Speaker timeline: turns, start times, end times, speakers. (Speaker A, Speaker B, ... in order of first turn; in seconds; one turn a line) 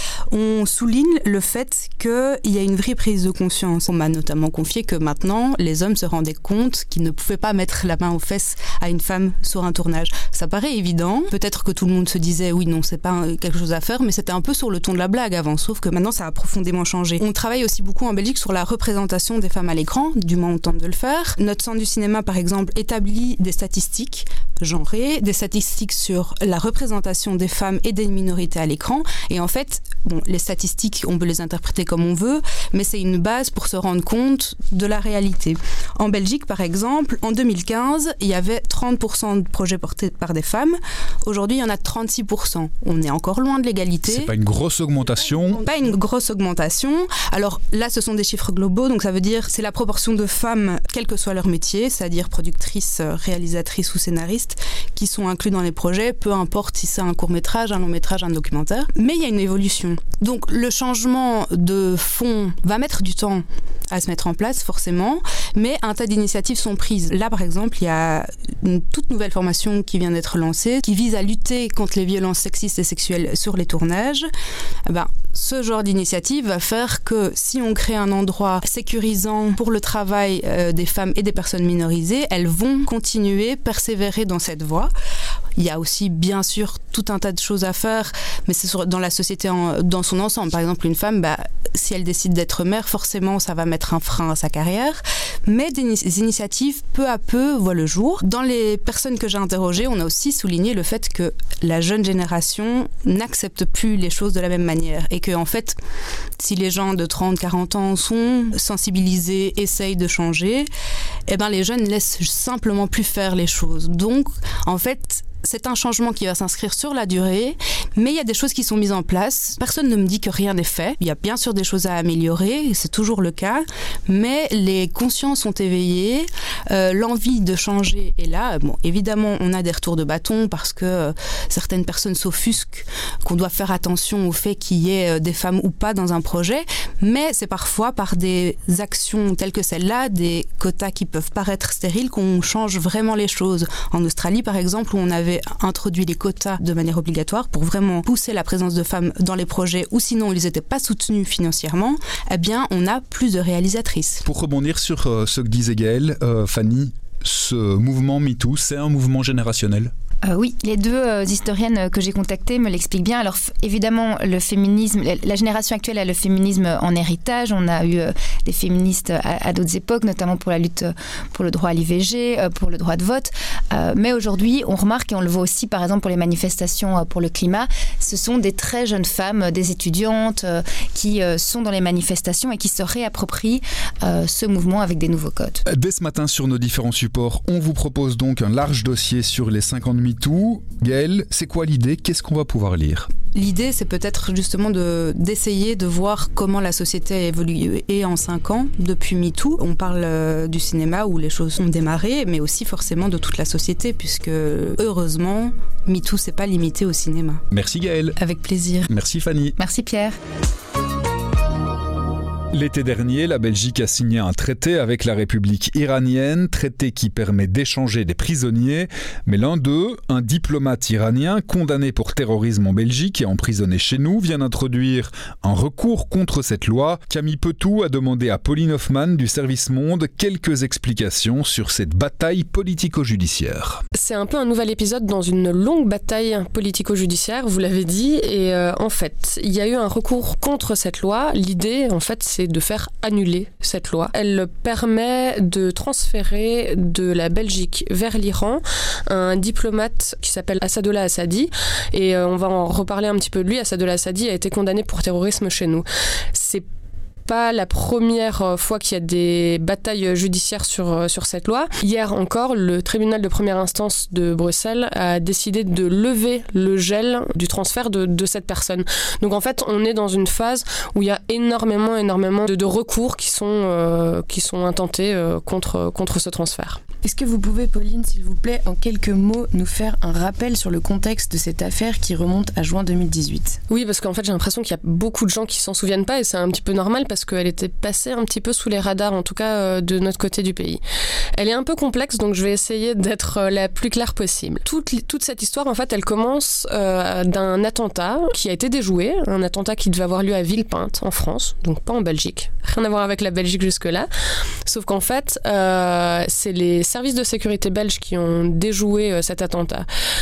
Speaker A: 0.3-44.3
Speaker B: 44.0-45.6
Speaker A: 45.5-74.2
Speaker A: 74.8-84.9
Speaker A: 85.5-105.8
Speaker A: 106.4-110.7
Speaker A: 111.3-154.2
Speaker B: 154.2-159.9
Speaker C: 160.2-185.6
Speaker B: 185.7-193.1
Speaker A: 193.3-207.4
Speaker B: 207.5-208.2
Speaker A: 208.2-208.9
Speaker B: 208.9-209.5
Speaker C: 209.6-210.1
Speaker B: 212.5-233.8
Speaker D: 233.9-256.6
Speaker D: 257.2-276.8
Speaker E: 277.0-283.6
Speaker D: 283.7-290.8
Speaker D: 291.4-304.1
Speaker D: 304.6-309.9